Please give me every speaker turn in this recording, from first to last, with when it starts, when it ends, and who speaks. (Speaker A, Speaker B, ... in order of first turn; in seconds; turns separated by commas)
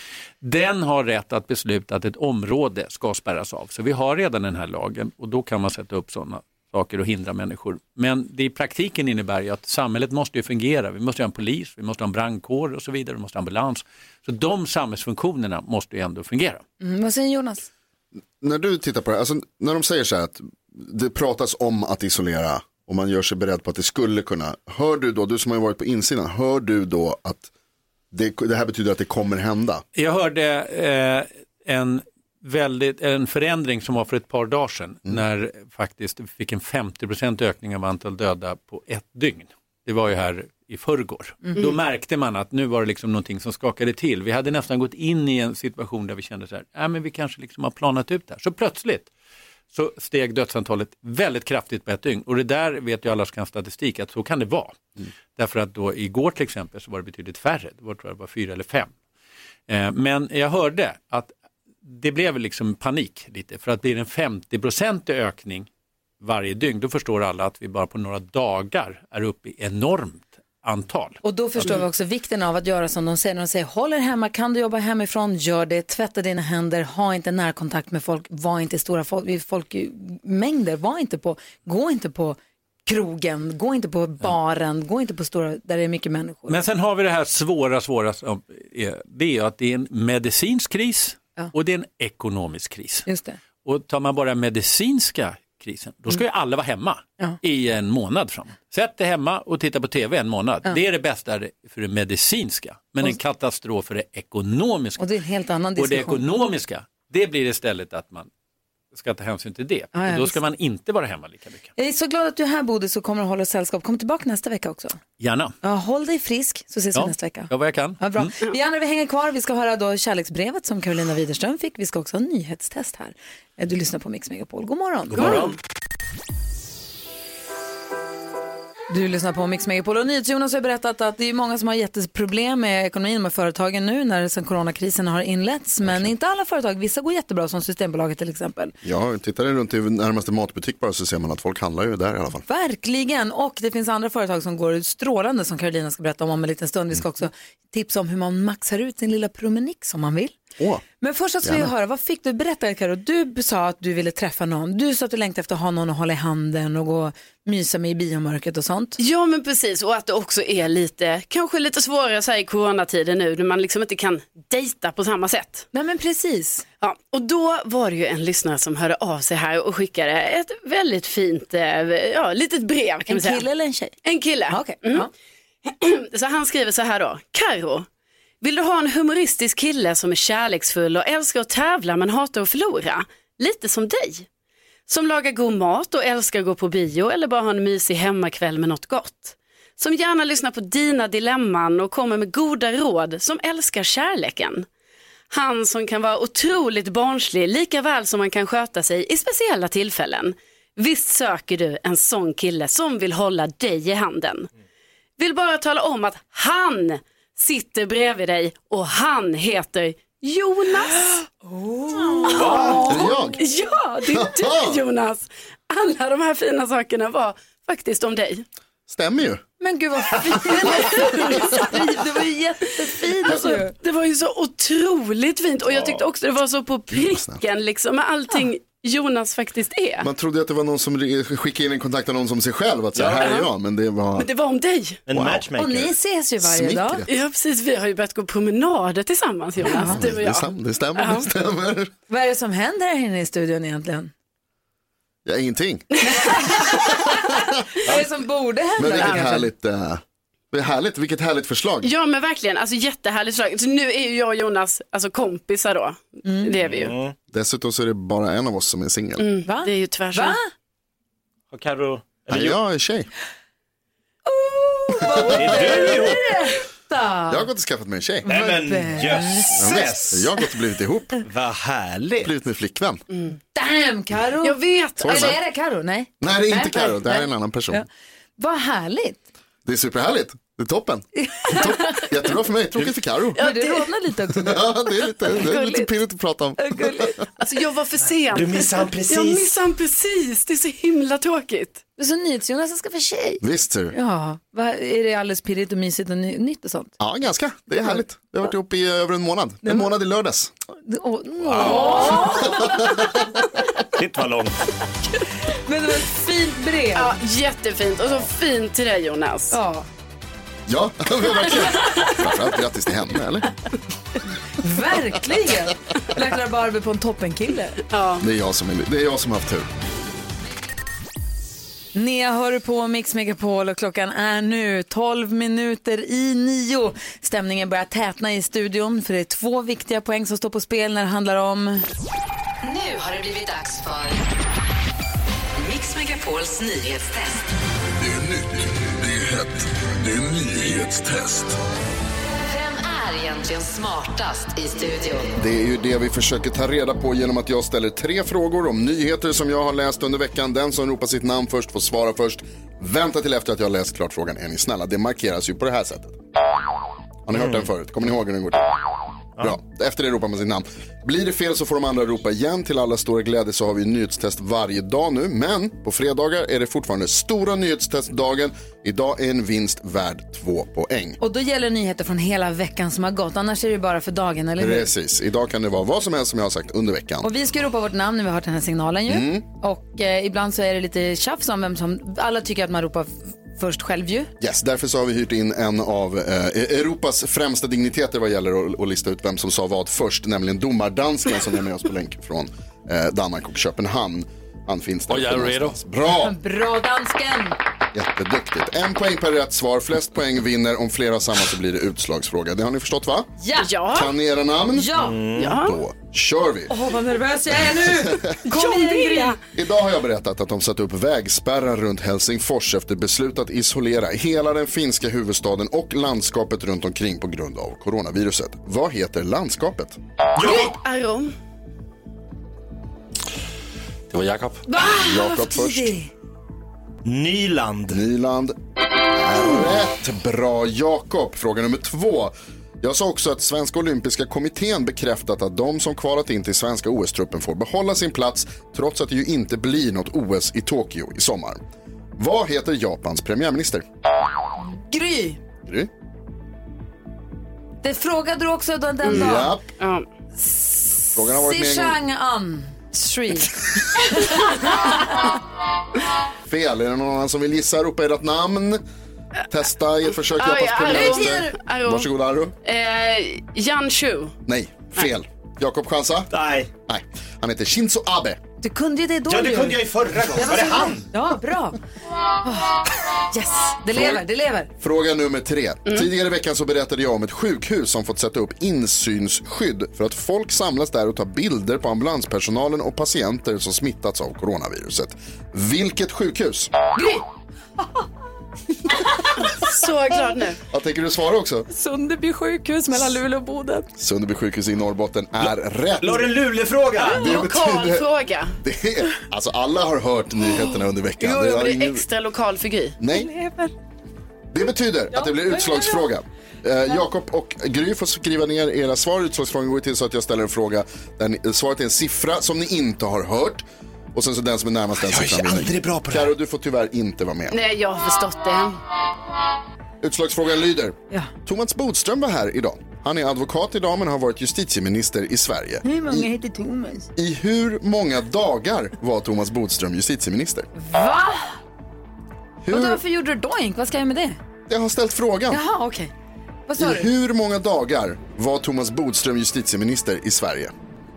Speaker A: 0.4-16.6, Speaker B: 16.8-17.7, Speaker C: 18.4-27.5, Speaker C: 28.1-29.8, Speaker A: 29.9-49.1, Speaker A: 49.7-58.9, Speaker A: 59.7-61.3, Speaker A: 61.8-65.7, Speaker A: 66.2-71.2, Speaker B: 71.2-86.6, Speaker A: 86.5-93.0, Speaker B: 93.0-93.4, Speaker A: 93.6-105.0, Speaker B: 105.0-106.2, Speaker A: 105.8-108.3, Speaker A: 108.9-111.7, Speaker B: 109.9-110.4, Speaker B: 111.8-115.0, Speaker A: 115.2-115.5, Speaker B: 115.6-125.5, Speaker A: 116.9-118.3, Speaker A: 125.2-125.5, Speaker D: 125.2-125.5, Speaker B: 128.9-138.7, Speaker C: 138.8-142.4, Speaker B: 142.5-150.3, Speaker C: 150.6-150.8, Speaker B: 151.0-159.0, Speaker C: 151.4-151.7, Speaker D: 159.0-165.7, Speaker B: 165.7-166.6, Speaker D: 166.8-173.4, Speaker B: 173.1-174.0, Speaker D: 174.0-175.1, Speaker B: 174.5-175.1, Speaker D: 175.7-177.9, Speaker D: 178.4-184.3, Speaker D: 184.9-194.7, Speaker D: 195.3-204.5, Speaker D: 205.2-211.2, Speaker B: 211.1-213.1, Speaker D: 212.3-218.4, Speaker C: 212.4-213.4, Speaker C: 214.1-214.8, Speaker C: 218.9-219.4, Speaker B: 219.6-223.7, Speaker D: 220.8-221.8, Speaker D: 223.2-230.1, Speaker C: 226.9-227.4, Speaker C: 230.0-234.3, Speaker E: 232.9-233.4, Speaker D: 234.2-235.0, Speaker E: 235.1-235.9, Speaker C: 235.1-235.5, Speaker B: 235.6-237.0, Speaker C: 236.4-237.1, Speaker D: 237.1-241.3, Speaker C: 239.6-241.9, Speaker B: 239.6-240.0, Speaker B: 242.1-244.1, Speaker C: 245.2-246.0, Speaker B: 246.0-249.5, Speaker D: 246.1-246.6, Speaker C: 248.8-251.9, Speaker D: 251.8-256.9, Speaker B: 256.2-256.5, Speaker E: 256.6-257.1, Speaker C: 257.3-259.3, Speaker D: 259.2-260.4, Speaker B: 259.4-260.5, Speaker E: 261.5-262.6, Speaker C: 262.3-263.1, Speaker B: 264.2-267.5, Speaker C: 265.0-266.0, Speaker E: 265.3-266.2, Speaker C: 267.3-268.3, Speaker B: 268.2-269.8, Speaker E: 268.2-270.2, Speaker C: 269.5-271.1, Speaker E: 271.2-272.3, Speaker C: 272.2-273.0, Speaker B: 273.5-277.8, Speaker D: 274.4-275.3, Speaker C: 275.0-275.4, Speaker C: 276.2-277.8, Speaker B: 278.4-279.2, Speaker C: 279.6-283.4, Speaker B: 281.2-282.0, Speaker D: 283.4-283.9, Speaker B: 283.4-284.6, Speaker C: 284.3-287.2, Speaker D: 285.3-285.9, Speaker B: 286.6-287.2, Speaker D: 287.4-291.8, Speaker E: 288.3-289.5, Speaker B: 292.0-296.9, Speaker C: 293.4-293.9, Speaker C: 297.0-300.5, Speaker B: 300.8-303.1, Speaker E: 301.5-302.3, Speaker C: 301.7-303.2, Speaker D: 301.7-302.2, Speaker E: 304.0-304.6, Speaker B: 305.6-307.2, Speaker D: 306.9-309.6, Speaker B: 309.5-309.9, Speaker C: 310.7-313.5, Speaker B: 314.6-317.8, Speaker D: 317.9-318.2, Speaker C: 318.2-319.7, Speaker B: 321.9-331.8, Speaker F: 332.6-334.2, Speaker F: 335.6-337.5, Speaker G: 338.0-341.6, Speaker F: 342.4-345.3, Speaker C: 345.4-356.2, Speaker C: 357.2-358.8, Speaker E: 357.3-357.6, Speaker C: 359.4-371.2, Speaker B: 371.2-374.9, Speaker C: 374.6-377.3, Speaker B: 377.2-384.3, Speaker C: 379.1-379.4, Speaker C: 384.4-396.4, Speaker A: 395.1-395.8, Speaker B: 396.2-397.6, Speaker C: 397.9-403.3, Speaker B: 403.4-403.7, Speaker D: 403.6-404.1, Speaker C: 403.9-406.8, Speaker B: 404.7-405.2, Speaker E: 405.0-405.5, Speaker D: 405.4-405.8, Speaker B: 406.7-409.4, Speaker D: 408.4-409.4, Speaker C: 409.5-420.0, Speaker E: 420.4-420.8, Speaker D: 420.4-421.3, Speaker A: 424.1-424.6, Speaker B: 424.7-426.1, Speaker C: 424.8-425.9, Speaker E: 427.0-428.0, Speaker C: 427.9-441.6, Speaker C: 442.2-443.8, Speaker B: 444.6-445.4, Speaker B: 447.8-449.5, Speaker C: 449.1-449.6, Speaker D: 449.1-450.1, Speaker B: 450.4-455.3, Speaker C: 451.1-452.0, Speaker C: 456.5-458.8, Speaker C: 459.5-462.5, Speaker D: 460.4-462.1, Speaker B: 460.8-461.6, Speaker D: 462.6-464.4, Speaker C: 464.5-466.3, Speaker E: 466.3-466.7, Speaker C: 466.9-468.4, Speaker B: 468.6-471.8, Speaker E: 469.3-471.1, Speaker B: 472.4-474.7, Speaker C: 473.9-474.2, Speaker C: 474.8-486.7, Speaker B: 486.9-487.2, Speaker B: 487.8-488.0, Speaker B: 488.9-490.4, Speaker D: 489.5-490.6, Speaker C: 490.7-491.7, Speaker B: 491.7-493.9, Speaker C: 494.0-496.3, Speaker E: 496.0-497.3, Speaker D: 497.0-498.5, Speaker C: 497.0-502.0, Speaker D: 501.2-503.0, Speaker C: 503.0-503.3, Speaker B: 503.1-503.7, Speaker C: 504.5-513.6, Speaker B: 505.1-506.1, Speaker C: 514.1-517.6, Speaker E: 515.0-516.3, Speaker D: 517.5-518.8, Speaker C: 520.0-526.3, Speaker B: 525.8-527.1, Speaker C: 527.1-530.7, Speaker B: 530.8-531.6, Speaker C: 532.6-533.0, Speaker B: 532.7-534.4, Speaker C: 534.7-535.6, Speaker B: 535.5-536.1, Speaker B: 536.7-537.1, Speaker C: 536.8-540.7